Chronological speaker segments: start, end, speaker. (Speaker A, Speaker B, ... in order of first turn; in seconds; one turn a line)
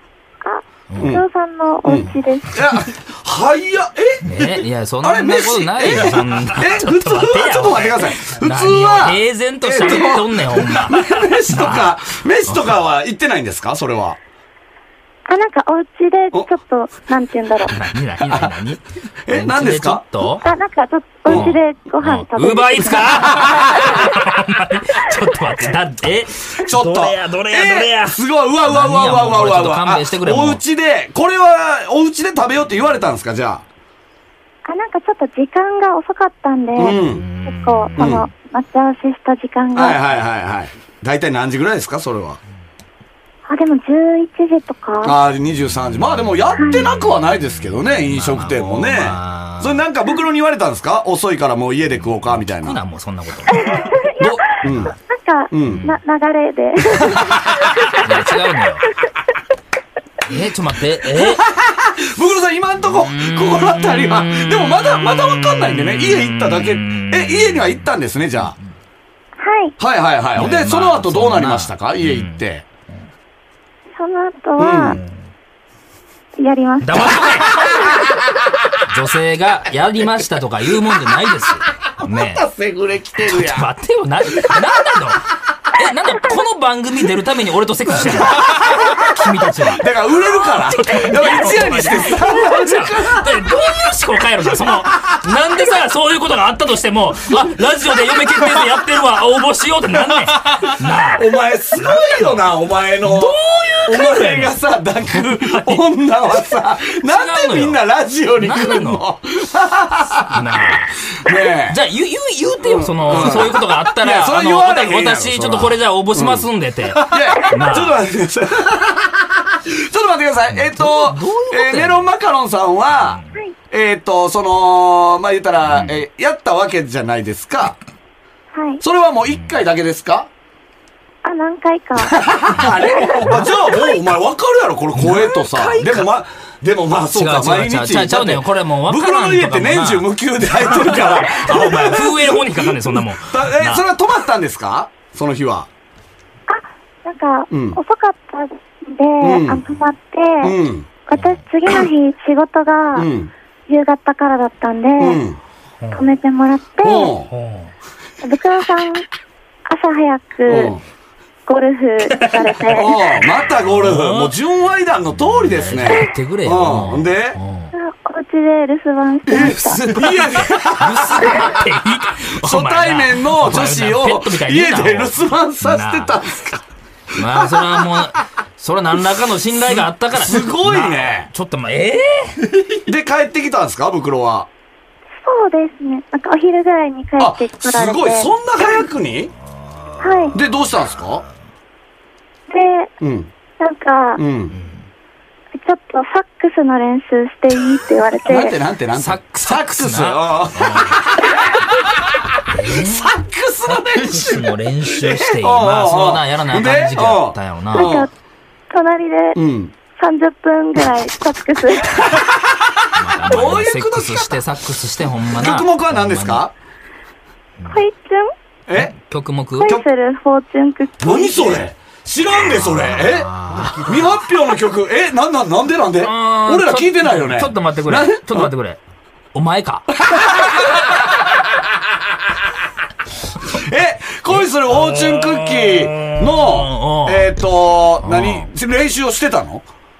Speaker A: 0.4-2.6
Speaker B: 0.9-1.2
Speaker C: 1.0-1.2
Speaker C: 1.9-4.4
Speaker B: 4.2-12.8
Speaker C: 5.0-14.2
Speaker A: 15.3-17.7
Speaker B: 17.7-20.5
Speaker C: 18.3-18.5
Speaker C: 19.2-20.0
Speaker A: 20.4-24.2
Speaker C: 21.2-21.5
Speaker B: 21.3-30.6
Speaker C: 23.2-23.9
Speaker C: 26.6-33.6
Speaker A: 34.6-40.0
Speaker C: 36.8-37.2
Speaker B: 36.9-38.1
Speaker C: 38.0-38.3
Speaker C: 39.8-42.4
Speaker A: 43.5-45.1
Speaker C: 45.0-52.8
Speaker B: 46.0-47.5
Speaker A: 46.6-46.9
Speaker B: 48.1-49.8
Speaker B: 52.0-53.8
Speaker A: 53.6-54.4
Speaker C: 54.2-54.9
Speaker A: 55.1-57.3
Speaker C: 55.5-55.9
Speaker B: 55.6-56.0
Speaker C: 56.9-57.6
Speaker B: 58.0-58.9
Speaker B: 60.2-61.5
Speaker C: 61.1-68.5
Speaker B: 62.8-67.9
Speaker A: 69.4-69.7
Speaker C: 69.8-72.6
Speaker B: 70.4-72.4
Speaker A: 74.0-75.0
Speaker C: 74.6-75.0
Speaker A: 76.4-77.9
Speaker B: 76.8-77.7
Speaker C: 77.3-78.2
Speaker B: 78.9-82.4
Speaker C: 82.0-83.7
Speaker B: 83.2-102.4
Speaker C: 84.4-85.0
Speaker C: 88.0-93.7
Speaker C: 94.5-95.2
Speaker C: 98.1-98.6
Speaker C: 101.1-103.3
Speaker B: 103.0-104.6
Speaker C: 103.8-110.5
Speaker B: 105.2-105.8
Speaker B: 107.0-107.8
Speaker B: 108.4-109.0
Speaker B: 110.3-111.0
Speaker C: 111.2-111.8
Speaker B: 111.7-118.0
Speaker C: 112.6-123.2
Speaker B: 120.5-122.1
Speaker B: 123.0-123.4
Speaker C: 123.7-127.8
Speaker B: 125.7-126.0
Speaker A: 128.5-128.8
Speaker C: 128.8-130.3
Speaker B: 129.3-129.6
Speaker A: 131.2-133.9
Speaker C: 132.0-145.7
Speaker B: 132.6-133.5
Speaker B: 134.9-136.1
Speaker B: 137.1-143.8
Speaker A: 146.5-150.5
Speaker C: 147.5-147.8
Speaker C: 149.2-149.6
Speaker C: 150.4-150.9
Speaker A: 151.1-153.1
Speaker B: 151.1-151.4
Speaker C: 152.9-153.3
Speaker A: 153.7-155.2
Speaker C: 155.0-155.4
Speaker B: 155.8-156.1
Speaker A: 155.9-157.1
Speaker C: 156.8-157.3
Speaker B: 157.3-157.7
Speaker A: 158.2-159.1
Speaker A: 159.7-160.8
Speaker C: 160.5-160.8
Speaker A: 161.5-162.9
Speaker B: 162.1-164.3
Speaker C: 162.7-167.4
Speaker B: 165.1-167.7
Speaker A: 167.7-169.8
Speaker C: 169.2-171.6
Speaker B: 169.4-176.2
Speaker C: 172.4-178.0
Speaker B: 177.1-182.6
Speaker C: 179.6-181.3
Speaker C: 182.9-184.5
Speaker A: 185.2-188.8
Speaker C: 187.2-189.3
Speaker B: 190.0-191.3
Speaker A: 190.0-190.4
Speaker C: 190.3-191.2
Speaker A: 192.5-192.9
Speaker C: 193.0-193.3
Speaker A: 193.6-194.2
Speaker C: 194.2-194.6
Speaker B: 194.5-194.9
Speaker A: 195.6-198.6
Speaker C: 198.2-202.2
Speaker B: 198.9-201.0
Speaker B: 202.5-203.1
Speaker C: 202.7-208.1
Speaker B: 203.7-208.0
Speaker A: 207.7-208.1
Speaker A: 208.7-209.4
Speaker C: 209.3-209.7
Speaker A: 210.0-212.0
Speaker C: 212.0-214.3
Speaker B: 212.9-216.5
Speaker C: 215.3-216.5
Speaker A: 217.7-218.3
Speaker C: 218.7-218.9
Speaker B: 218.8-219.8
Speaker A: 219.6-221.7
Speaker C: 221.0-228.5
Speaker B: 222.3-224.2
Speaker B: 226.0-228.8
Speaker B: 229.3-230.0
Speaker C: 230.0-231.4
Speaker C: 233.5-239.6
Speaker B: 234.3-237.3
Speaker B: 238.0-238.5